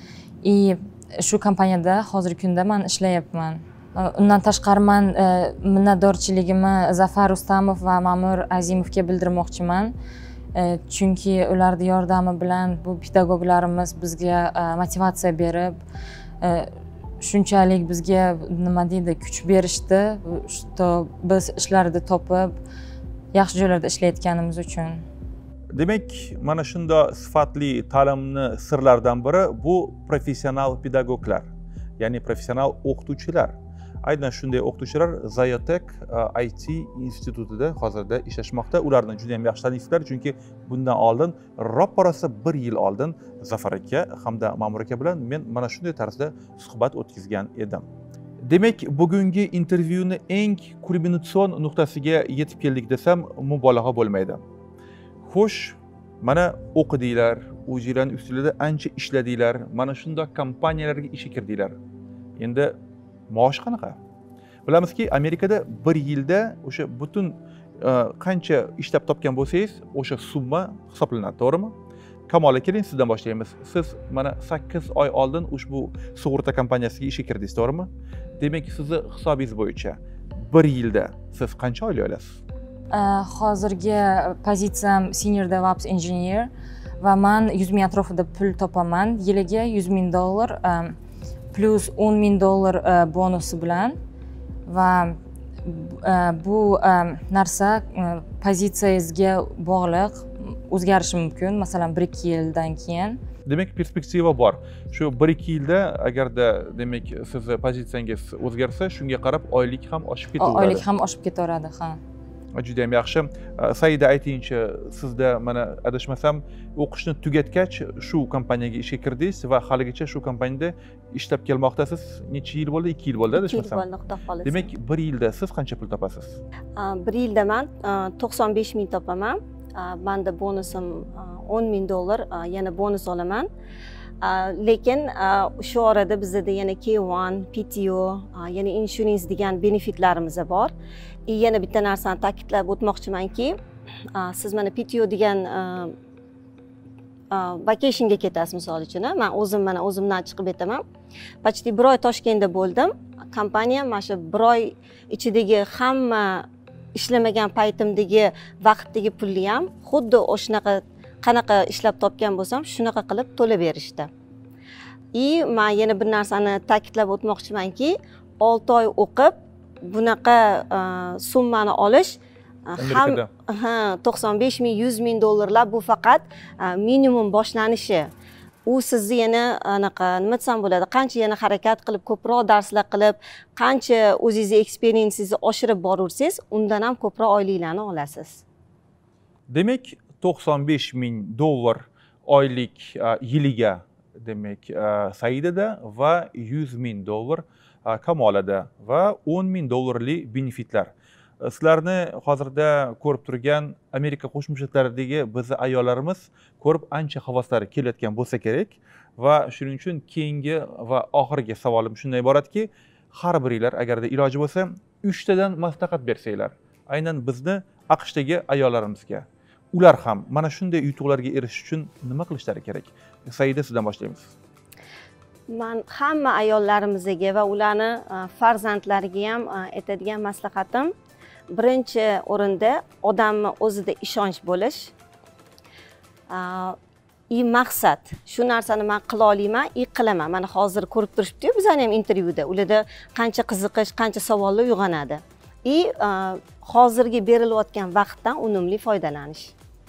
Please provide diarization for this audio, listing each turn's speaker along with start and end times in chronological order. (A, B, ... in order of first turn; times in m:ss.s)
0:00.4-0:09.9 A
0:10.5-0:15.8 A
0:16.4-0:22.6 A
0:23.3-0:25.0 A
0:25.7-0:31.5 B
0:32.0-0:47.8 B
0:48.5-0:54.4 B
0:55.2-1:01.7 B
1:02.4-1:02.8 B
1:03.3-1:04.0 B
1:04.6-1:11.7 B
1:12.3-1:17.9 B
1:18.4-1:22.4 B
1:22.9-1:31.0 A
1:31.5-1:34.0 A
1:34.7-1:43.2 A
1:43.5-1:50.8 B
1:50.4-1:52.0 A
1:52.6-2:03.8 B
2:03.3-2:04.7 C
2:04.4-2:06.4 B
2:06.8-2:13.5 C
2:14.2-2:20.7 C
2:21.3-2:23.6 C
2:24.1-2:25.9 C
2:27.3-2:30.8 C
2:31.4-2:44.1 C
2:45.1-2:58.1 C
2:52.8-2:53.3 B
2:58.7-3:08.4 C
3:09.5-3:44.3 B
3:45.5-3:50.9 C
3:51.5-3:54.9 C
3:56.3-3:56.8 C
3:57.3-4:09.5 C